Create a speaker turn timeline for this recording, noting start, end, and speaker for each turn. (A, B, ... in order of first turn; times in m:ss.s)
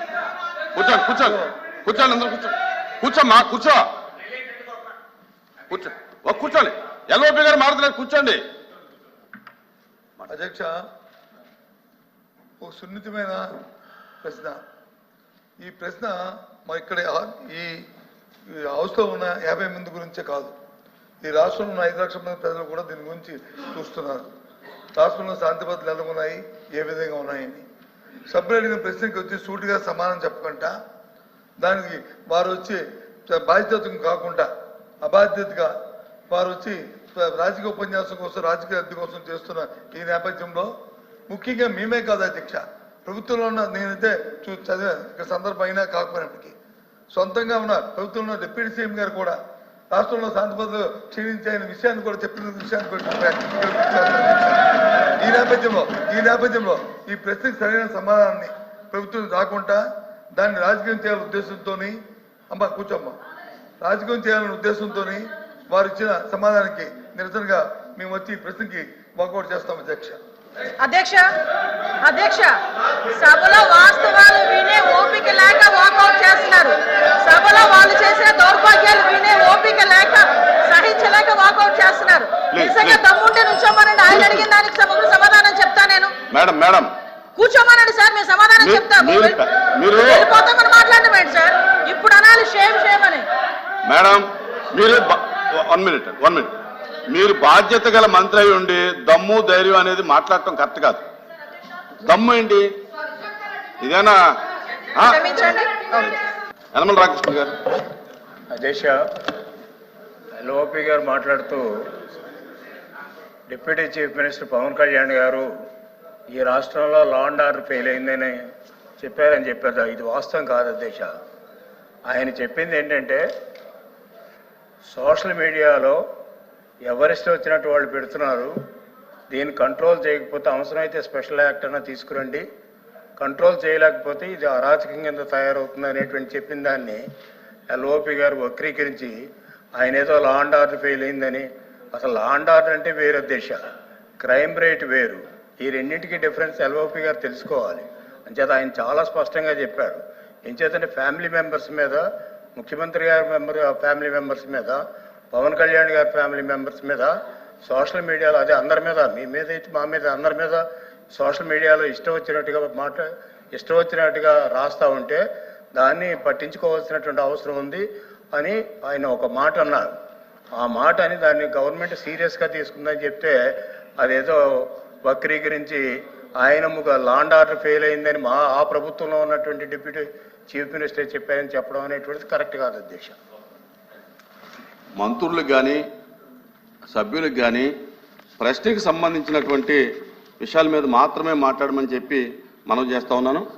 0:00.7-0:03.8 A
0:05.7-0:08.4 A
0:10.3-0:10.8 B
0:12.6-0:13.4 B
0:14.2-0:14.6 B
0:15.6-0:17.8 B
0:18.5-0:20.5 B
0:21.2-0:24.3 B
0:25.0-0:27.6 B
0:28.3-0:30.7 B
0:31.6-0:34.5 B
0:35.0-0:35.7 B
0:36.3-0:40.7 B
0:41.3-0:46.5 B
0:47.1-0:49.4 B
0:49.9-0:54.6 B
0:55.2-1:02.0 B
1:02.5-1:03.2 B
1:03.8-1:10.2 B
1:10.8-1:11.3 C
1:12.0-1:12.5 C
1:13.1-1:26.1 C
1:22.5-1:23.0 A
1:26.3-1:26.9 A
1:27.4-1:29.4 C
1:28.6-1:30.2 A
1:30.0-1:33.2 C
1:33.9-1:36.5 A
1:37.1-1:41.0 A
1:42.0-1:42.6 A
1:43.8-1:44.2 A
1:45.0-1:45.5 A
1:45.0-1:45.8 C
1:46.7-1:47.5 A
1:48.5-1:49.0 D
1:50.4-1:51.7 D
1:53.5-1:55.5 D
1:56.3-1:58.4 D
1:59.0-2:01.1 D
2:02.1-2:03.2 D
2:04.8-2:06.0 D
2:06.9-2:08.5 D
2:09.3-2:12.4 D
2:13.2-2:17.0 D
2:17.7-2:19.2 D
2:19.8-2:23.6 D
2:24.2-2:32.0 D
2:32.6-2:34.8 D
2:35.3-2:37.1 D
2:37.6-2:40.6 D
2:41.1-2:45.2 D
2:45.8-2:49.9 D
2:50.6-2:55.8 D
2:56.4-3:03.2 D
3:05.0-3:05.8 A
3:06.9-3:07.7 A
3:08.4-3:09.8 A
3:10.4-3:13.5 A